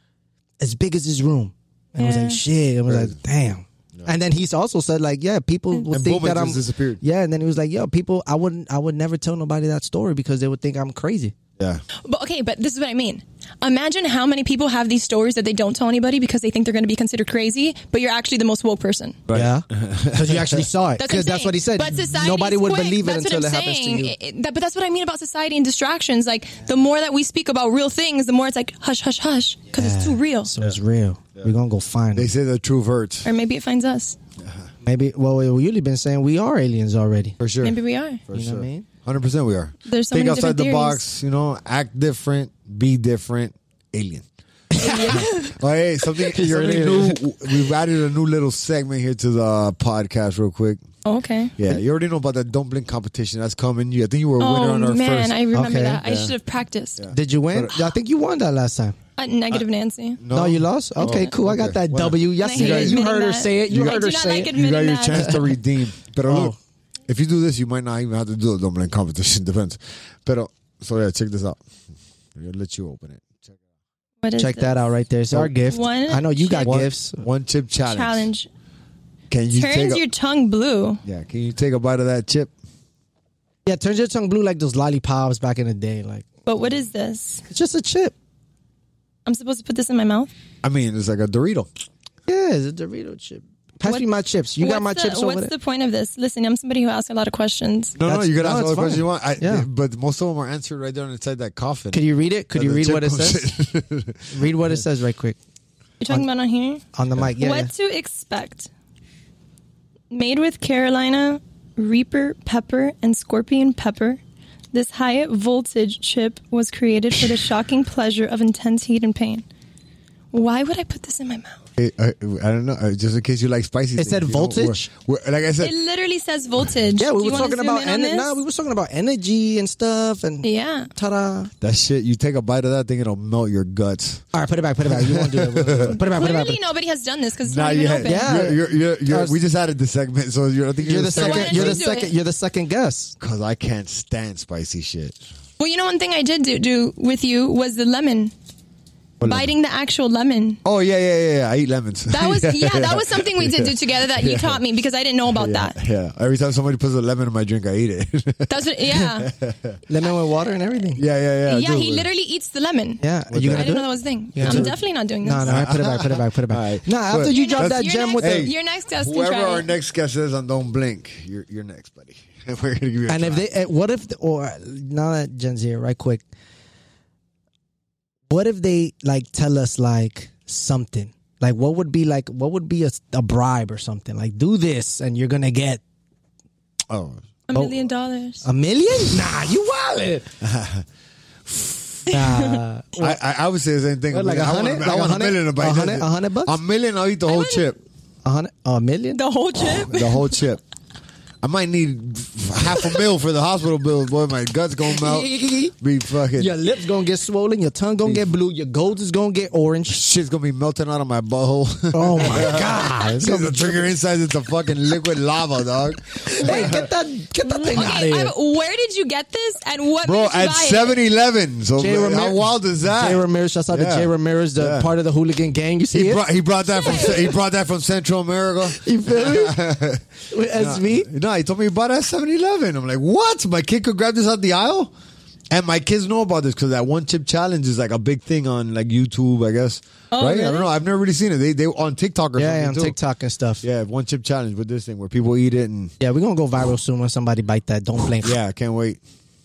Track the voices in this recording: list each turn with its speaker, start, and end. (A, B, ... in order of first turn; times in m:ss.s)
0:00.6-0:11.4 A
0:02.0-0:02.4 B
0:02.9-0:03.2 C
0:05.9-0:07.0 C
0:12.0-0:19.2 B
0:19.3-0:20.7 C
0:19.3-0:24.1 A
0:21.0-0:30.5 B
0:29.7-0:32.3 A
0:32.1-0:33.3 C
0:33.2-0:34.2 B
0:34.8-0:37.4 A
0:37.4-0:44.3 C
0:37.6-0:38.2 B
0:38.3-0:38.9 A
0:39.9-0:41.0 B
0:44.7-0:45.3 A
0:44.8-0:50.8 C
0:44.8-0:45.5 B
0:46.2-0:47.2 A
0:51.0-0:51.6 B
0:51.6-0:55.4 C
0:54.4-0:57.0 B
0:55.5-0:56.0 A
0:56.0-0:56.4 C
0:57.0-0:57.8 C
0:57.1-0:59.0 A
0:59.2-1:00.2 B
1:00.2-1:03.0 C
1:00.3-1:04.5 A
1:02.4-1:05.4 B
1:03.7-1:06.6 C
1:05.1-1:05.4 A
1:06.2-1:06.6 A
1:07.1-1:11.6 C
1:12.4-1:13.6 C
1:14.2-1:14.7 B
1:14.4-1:17.2 A
1:15.7-1:16.8 B
1:16.6-1:18.3 C
1:17.8-1:18.5 B
1:19.3-1:20.0 C
1:19.5-1:21.0 B
1:21.0-1:22.5 C
1:23.7-1:26.3 A
1:26.5-1:27.4 B
1:27.5-1:28.1 A
1:29.3-1:30.3 B
1:30.6-1:31.7 C
1:32.3-1:35.5 A
1:34.6-1:38.0 B
1:38.0-1:44.7 C
1:38.0-1:39.7 A
1:41.9-1:43.5 A
1:44.3-1:45.4 A
1:46.0-1:46.8 B
1:46.9-1:47.7 A
1:47.4-1:48.7 B
1:50.1-1:54.2 B
1:54.7-1:59.4 B
2:00.3-2:01.6 B
2:01.8-2:05.7 C
2:04.0-2:04.9 A
2:05.6-2:08.4 B
2:07.0-2:11.5 A
2:10.4-2:10.9 B
2:11.6-2:14.2 C
2:14.3-2:16.6 A
2:14.8-2:16.0 C
2:16.0-2:18.5 B
2:17.4-2:21.8 C
2:18.0-2:19.4 A
2:20.8-2:23.2 A
2:21.1-2:22.1 B
2:23.2-2:25.2 C
2:25.6-2:28.3 B
2:29.2-2:29.5 C
2:29.2-2:30.6 B
2:30.6-2:34.6 C
2:32.1-2:35.8 B
2:35.3-2:39.8 C
2:38.5-2:39.3 B
2:39.9-2:41.0 A
2:41.0-2:42.1 C
2:41.5-2:45.5 B
2:43.0-2:48.5 A
2:43.3-2:43.8 C
2:44.4-2:44.8 C
2:45.4-2:53.5 C
2:47.3-2:49.7 B
2:53.1-2:56.2 A
2:58.3-3:05.8 A
3:06.9-3:07.2 C
3:07.5-3:08.4 B
3:08.4-3:10.3 A
3:10.4-3:10.8 C
3:11.5-3:12.1 C
3:12.1-3:13.2 A
3:12.1-3:12.6 B
3:13.0-3:17.8 C
3:14.1-3:16.6 A
3:17.3-3:17.7 B
3:18.2-3:19.2 A
3:19.1-3:20.4 B
3:19.8-3:20.6 C
3:21.4-3:26.5 C
3:24.9-3:25.7 A
3:26.4-3:30.0 A
3:29.9-3:36.8 C
3:31.9-3:33.9 A
3:36.2-3:38.3 A
3:37.4-3:41.0 B
3:40.0-3:44.9 C
3:41.8-3:46.3 A
3:45.9-3:54.9 C
3:46.7-3:47.3 B
3:46.9-3:47.1 A
3:48.7-3:49.6 A
3:50.3-3:51.1 A
3:55.5-4:03.0 C
4:00.1-4:00.7 B
4:02.4-4:03.6 A
4:03.6-4:05.9 C
4:06.0-4:08.4 A
4:08.2-4:09.0 C